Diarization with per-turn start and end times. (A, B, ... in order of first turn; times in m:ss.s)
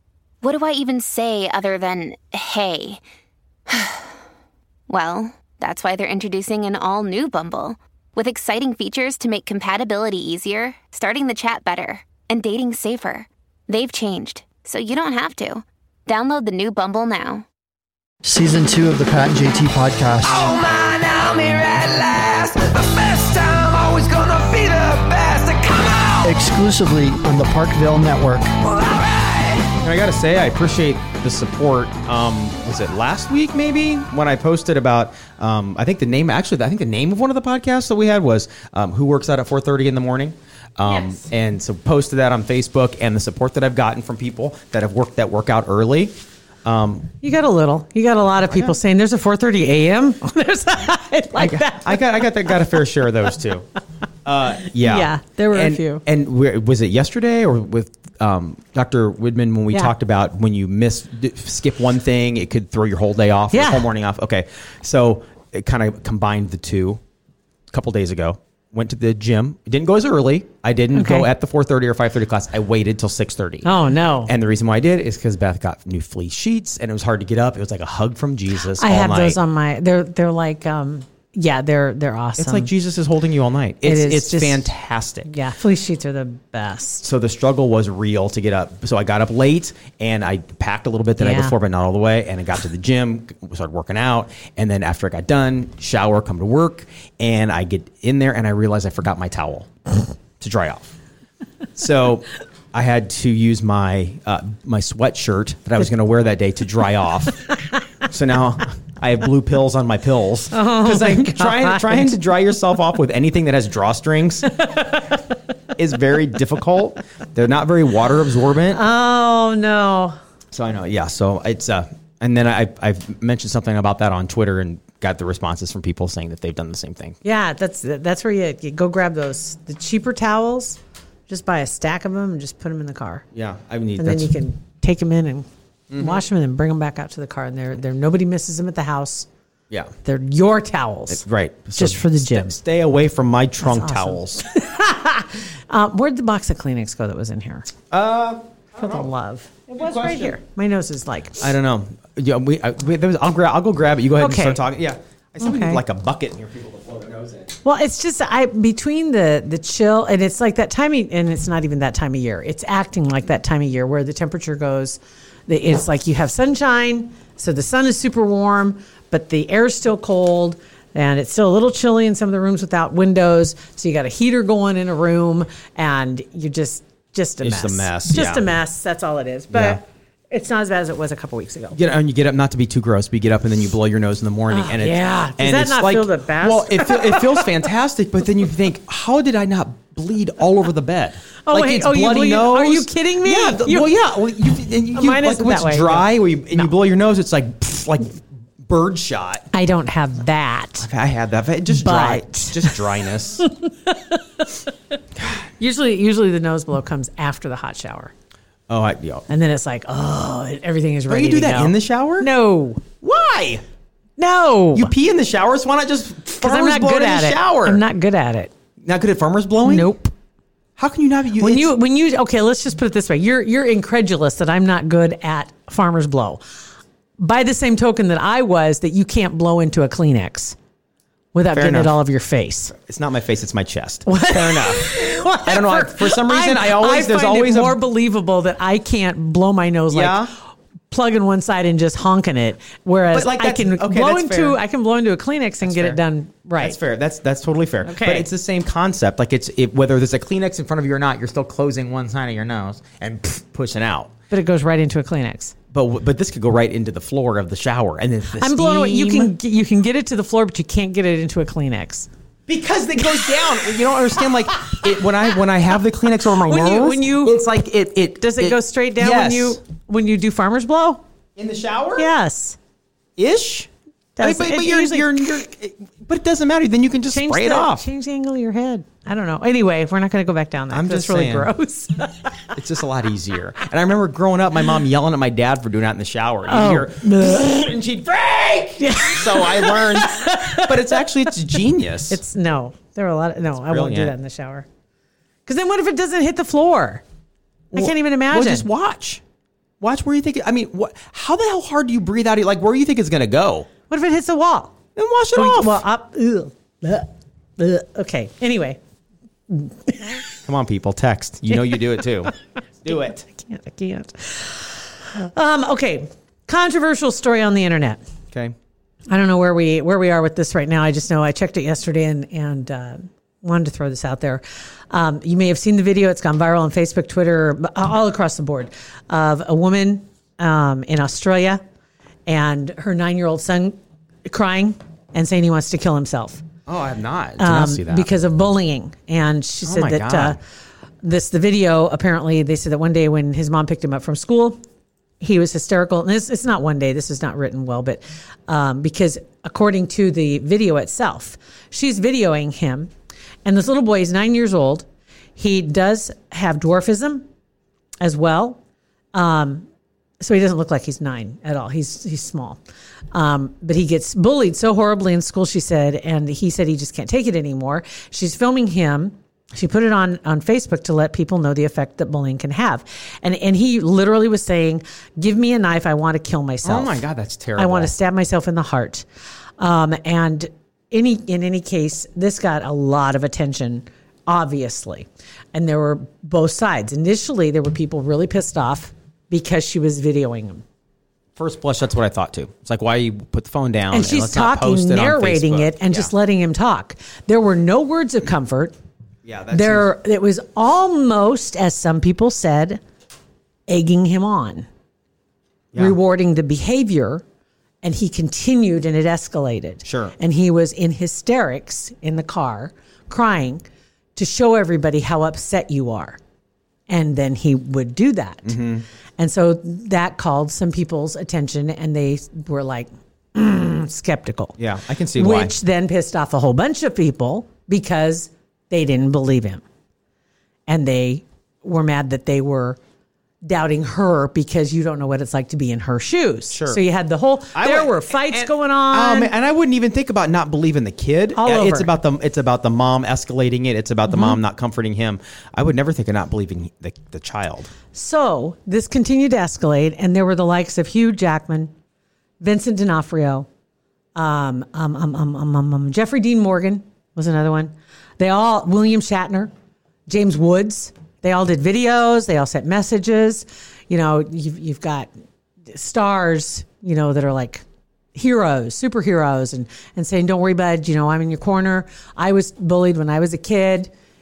0:00.4-0:03.0 A
0:03.7-0:04.1 A
0:04.9-0:17.4 A
0:18.2-0:20.6 B
0:20.6-0:26.2 C
0:26.2-0:28.6 B
0:28.8-0:29.7 C
0:29.7-0:46.1 D
0:46.6-0:47.1 D
0:47.2-0:52.6 E
0:48.5-0:48.8 D
0:51.4-0:53.7 D
0:54.2-1:07.0 D
0:54.6-0:56.0 E
1:03.5-1:03.9 E
1:07.7-1:13.7 D
1:10.9-1:11.3 E
1:13.6-1:14.3 E
1:14.3-1:19.4 D
1:18.6-1:22.7 E
1:22.4-1:25.3 D
1:23.8-1:24.7 E
1:25.2-1:27.1 E
1:27.0-1:40.9 D
1:31.2-1:31.6 E
1:41.8-1:47.5 D
1:48.0-1:54.7 D
1:50.5-1:52.2 E
1:54.7-1:55.2 E
1:55.8-1:58.8 D
1:58.7-2:00.2 E
2:00.5-2:07.2 D
2:07.2-2:13.3 E
2:13.3-2:14.3 D
2:14.0-2:19.3 E
2:15.9-2:16.2 D
2:20.0-2:21.2 E
2:21.1-2:24.4 D
2:21.8-2:22.6 E
2:23.6-2:27.7 E
2:27.9-2:29.1 D
2:28.8-2:31.4 E
2:29.7-2:30.4 D
2:31.4-2:37.6 D
2:34.2-2:34.6 E
2:35.4-2:35.8 E
2:37.6-3:01.8 E
2:57.4-2:58.5 D
2:59.5-2:59.8 D
3:01.8-3:19.5 D
3:04.5-3:07.5 E
3:11.4-3:13.9 E
3:14.9-3:16.7 E
3:19.5-3:20.9 E
3:20.8-3:23.5 D
3:21.7-3:22.8 E
3:23.4-3:24.5 E
3:25.6-3:28.1 E
3:28.7-3:29.3 D
3:29.3-3:32.8 E
3:31.1-3:32.3 D
3:33.0-3:33.6 D
3:34.2-3:34.9 E
3:34.7-3:37.8 D
3:36.4-3:38.5 E
3:38.8-3:39.9 D
3:39.6-3:40.1 E
3:40.8-3:41.7 D
3:41.4-3:46.4 E
3:47.2-3:50.6 E
3:51.3-3:52.7 E
3:51.5-3:52.0 D
3:52.8-3:57.8 D
3:54.1-4:00.3 E
3:59.9-4:00.3 D
4:00.9-4:06.8 E
4:03.1-4:04.6 D
4:05.6-4:06.0 D
4:06.6-4:14.1 D
4:07.8-4:08.3 E
4:14.3-4:15.6 E
4:15.7-4:19.4 D
4:18.4-4:22.1 E
4:22.5-4:29.6 D
4:23.4-4:23.7 E
4:26.4-4:27.4 E
4:28.2-4:31.0 E
4:31.4-4:32.1 D
4:32.0-4:32.6 E
4:33.2-4:33.7 D
4:34.2-4:35.4 E
4:34.2-4:37.9 D
4:37.1-4:42.5 E
4:40.7-4:41.5 D
4:42.6-4:52.2 D
4:46.5-4:47.5 E
4:48.8-4:51.6 E
4:52.1-4:54.7 E
4:53.7-4:54.1 D
4:55.5-4:57.0 E
4:57.7-4:58.7 E
4:57.7-4:59.2 D
4:59.8-5:03.7 D
5:03.9-5:04.8 E
5:05.0-5:05.8 D
5:05.4-5:08.8 E
5:09.5-5:10.2 E
5:10.4-5:12.3 D
5:11.5-5:11.8 E
5:12.8-5:13.2 D
5:12.9-5:18.0 E
5:19.1-5:31.6 E
5:32.3-5:36.4 E
5:36.7-5:38.1 D
5:37.4-5:40.4 E
5:39.6-5:40.4 D
5:41.0-5:44.6 E
5:45.2-5:52.9 E
5:53.4-5:57.3 E
5:58.0-5:58.6 E
5:59.1-5:59.7 E
6:00.2-6:02.6 E
6:03.1-6:17.0 E
6:16.6-6:17.9 D
6:17.6-6:19.1 E
6:19.6-6:30.6 E
6:31.4-6:36.1 D
6:33.9-6:38.8 E
6:39.2-6:39.9 D
6:39.5-6:42.8 E
6:43.7-6:44.7 E
6:45.8-6:47.2 E
6:47.8-6:53.6 E
6:49.8-6:50.2 D
6:54.2-6:56.2 E
6:56.9-6:58.6 E
6:58.4-6:58.8 D
6:59.2-7:04.6 E
7:04.6-7:05.5 D
7:05.1-7:09.6 E
7:10.7-7:12.8 E
7:13.4-7:19.3 E
7:16.5-7:16.8 D
7:17.6-7:27.7 D
7:21.4-7:21.9 E
7:24.1-7:24.4 E
7:27.9-7:31.7 E
7:32.4-7:33.5 E
7:34.2-7:39.5 E
7:40.1-7:45.1 E
7:45.7-7:53.9 E